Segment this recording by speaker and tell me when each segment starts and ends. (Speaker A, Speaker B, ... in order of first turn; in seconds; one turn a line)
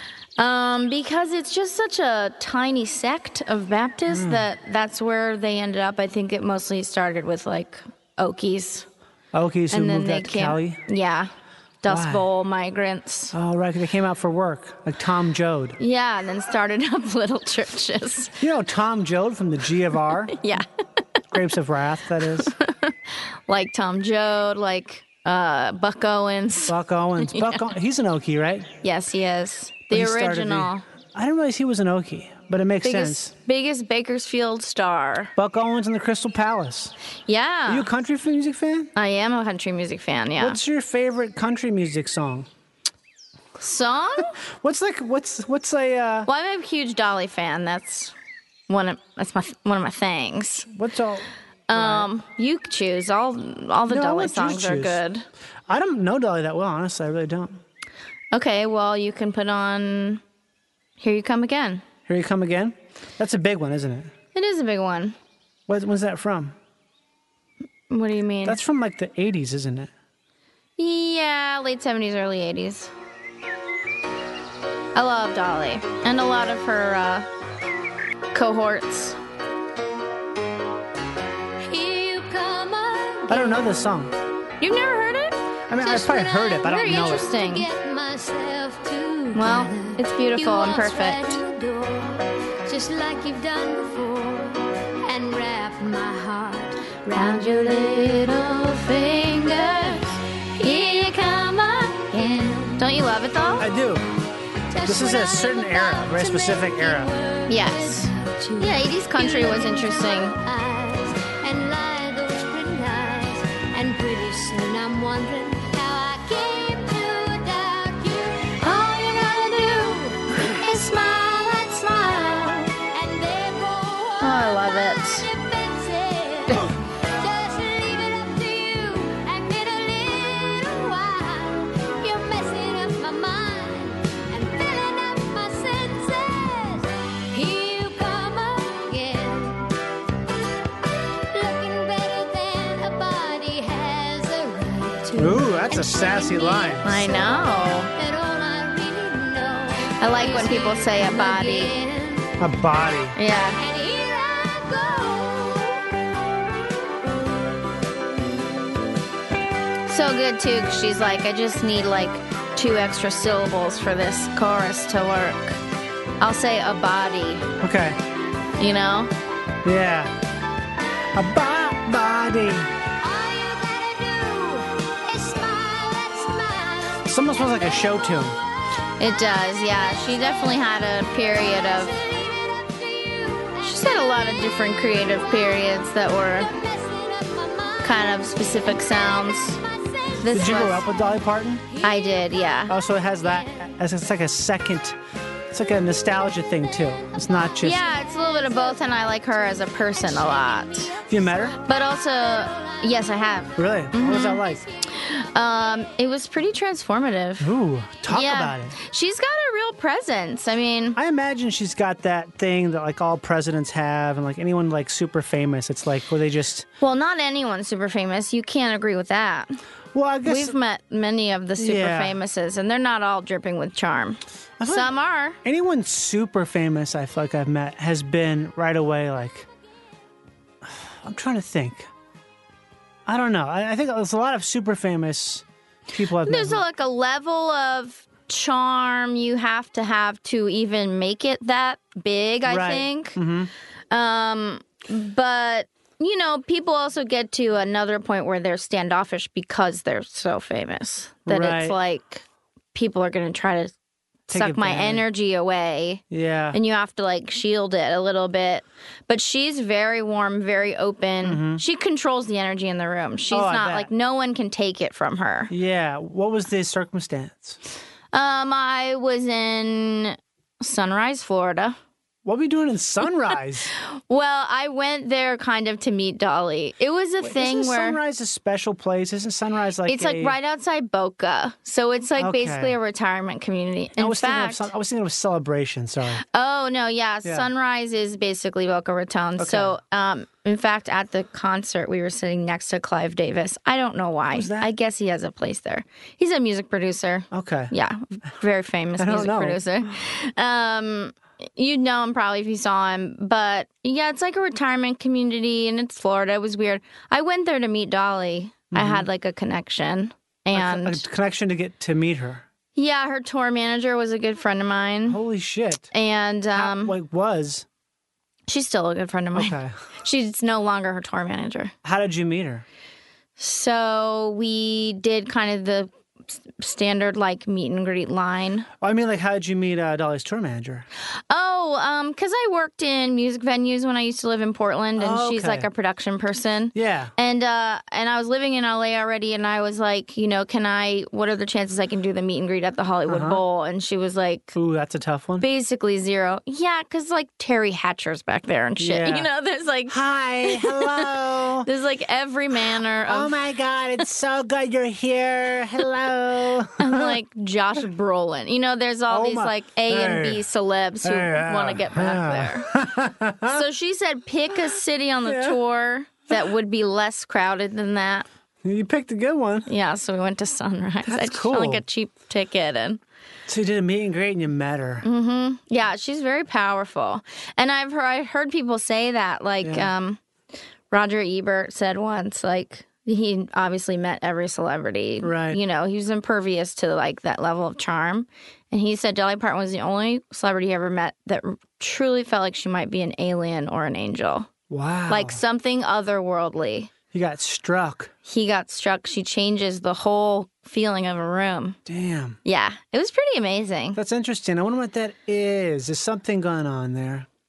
Speaker A: 0.4-8.9
Speaker B: 4.1-4.5
Speaker B: 9.3-10.8
Speaker A: 9.7-11.3
Speaker A: 11.8-13.3
Speaker B: 11.9-12.2
Speaker B: 13.3-15.8
Speaker A: 15.8-18.3
Speaker B: 18.4-20.4
Speaker A: 20.4-20.6
Speaker B: 21.3-22.5
Speaker A: 22.6-27.6
Speaker B: 26.7-28.7
Speaker A: 28.8-30.8
Speaker B: 29.9-33.3
Speaker A: 32.8-35.3
Speaker B: 35.4-36.9
Speaker A: 37.3-37.9
Speaker B: 37.7-38.9
Speaker A: 39.0-40.6
Speaker B: 40.4-42.5
Speaker A: 43.6-44.4
Speaker B: 44.4-46.3
Speaker A: 46.2-48.1
Speaker A: 48.7-50.7
Speaker B: 50.7-52.1
Speaker A: 51.7-55.2
Speaker B: 53.9-55.0
Speaker B: 55.7-57.6
Speaker A: 58.3-60.2
Speaker A: 61.0-61.8
Speaker B: 62.1-64.1
Speaker A: 64.3-65.2
Speaker B: 65.7-66.5
Speaker A: 67.9-68.6
Speaker B: 68.4-69.9
Speaker A: 70.8-72.9
Speaker A: 74.9-77.3
Speaker A: 78.3-79.2
Speaker C: 81.7-83.7
Speaker B: 83.3-84.1
Speaker A: 84.6-87.7
Speaker B: 85.7-87.3
Speaker C: 86.0-100.1
Speaker A: 89.3-91.4
Speaker A: 97.1-103.7
Speaker C: 100.6-103.1
Speaker B: 103.6-104.0
Speaker C: 104.7-139.7
Speaker B: 104.8-107.1
Speaker A: 107.5-110.3
Speaker A: 124.2-125.2
Speaker C: 141.3-152.3
Speaker B: 145.1-146.9
Speaker A: 146.8-147.9
Speaker A: 150.0-151.7
Speaker B: 152.4-153.2
Speaker A: 153.2-153.6
Speaker C: 153.6-155.8
Speaker A: 159.9-165.6
Speaker A: 166.2-167.4
Speaker B: 167.6-168.0
Speaker A: 168.6-169.1
Speaker B: 169.6-170.1
Speaker B: 171.1-172.7
Speaker C: 173.0-177.9
Speaker B: 177.1-178.4
Speaker A: 179.0-181.9
Speaker C: 179.5-193.8
Speaker A: 183.6-186.5
Speaker A: 187.8-189.6
Speaker A: 190.2-190.8
Speaker B: 190.3-191.6
Speaker A: 191.8-192.7
Speaker B: 192.7-195.0
Speaker B: 195.5-197.8
Speaker C: 197.0-203.5
Speaker A: 197.6-200.9
Speaker B: 201.1-201.6
Speaker A: 201.7-204.4
Speaker B: 203.6-204.6
Speaker C: 204.4-204.7
Speaker A: 205.1-207.5
Speaker B: 207.4-208.8
Speaker A: 208.1-211.0
Speaker B: 210.9-216.7
Speaker A: 216.8-219.6
Speaker B: 219.9-220.5
Speaker A: 220.2-225.4
Speaker B: 221.6-222.2
Speaker B: 224.6-224.9
Speaker B: 225.4-229.5
Speaker B: 230.6-231.9
Speaker B: 233.1-236.6
Speaker A: 236.2-243.2
Speaker B: 242.5-243.5
Speaker A: 243.9-253.7
Speaker B: 251.2-251.8
Speaker B: 254.3-255.0
Speaker A: 254.3-265.5
Speaker B: 256.1-256.6
Speaker B: 261.2-261.6
Speaker B: 263.3-263.9
Speaker B: 265.5-267.6
Speaker A: 268.1-271.8
Speaker B: 272.2-273.7
Speaker A: 273.8-278.0
Speaker B: 277.2-280.3
Speaker A: 279.9-284.7
Speaker B: 282.2-282.8
Speaker B: 284.0-286.2
Speaker A: 286.3-311.0
Speaker B: 289.4-289.7
Speaker B: 294.3-294.7
Speaker B: 297.3-297.7
Speaker B: 299.0-299.6
Speaker B: 308.7-309.0
Speaker B: 310.5-312.4
Speaker A: 312.7-315.2
Speaker B: 315.1-315.9
Speaker A: 315.9-316.9
Speaker B: 316.5-317.6
Speaker A: 318.5-321.7
Speaker B: 319.3-319.7
Speaker B: 321.8-322.6
Speaker A: 323.4-325.9
Speaker A: 326.5-328.7
Speaker B: 328.8-330.9
Speaker A: 331.3-344.6
Speaker B: 335.0-335.7
Speaker B: 336.7-337.1
Speaker B: 343.1-343.4
Speaker B: 344.5-345.4
Speaker A: 345.4-351.1
Speaker B: 348.8-349.3
Speaker B: 349.9-351.7
Speaker A: 351.6-353.4
Speaker B: 353.1-357.2
Speaker A: 356.8-362.7
Speaker B: 359.1-360.4
Speaker B: 361.0-363.6
Speaker A: 363.5-368.2
Speaker B: 365.2-365.6
Speaker B: 368.6-369.7
Speaker A: 369.7-373.0
Speaker B: 371.0-371.8
Speaker B: 373.5-375.1
Speaker A: 375.0-380.2
Speaker B: 379.6-379.9
Speaker A: 380.9-394.5
Speaker B: 385.2-385.6
Speaker B: 394.7-395.4
Speaker A: 395.1-396.9
Speaker B: 397.1-398.1
Speaker A: 398.2-401.8
Speaker B: 401.9-402.4
Speaker A: 402.4-404.0
Speaker B: 403.9-407.3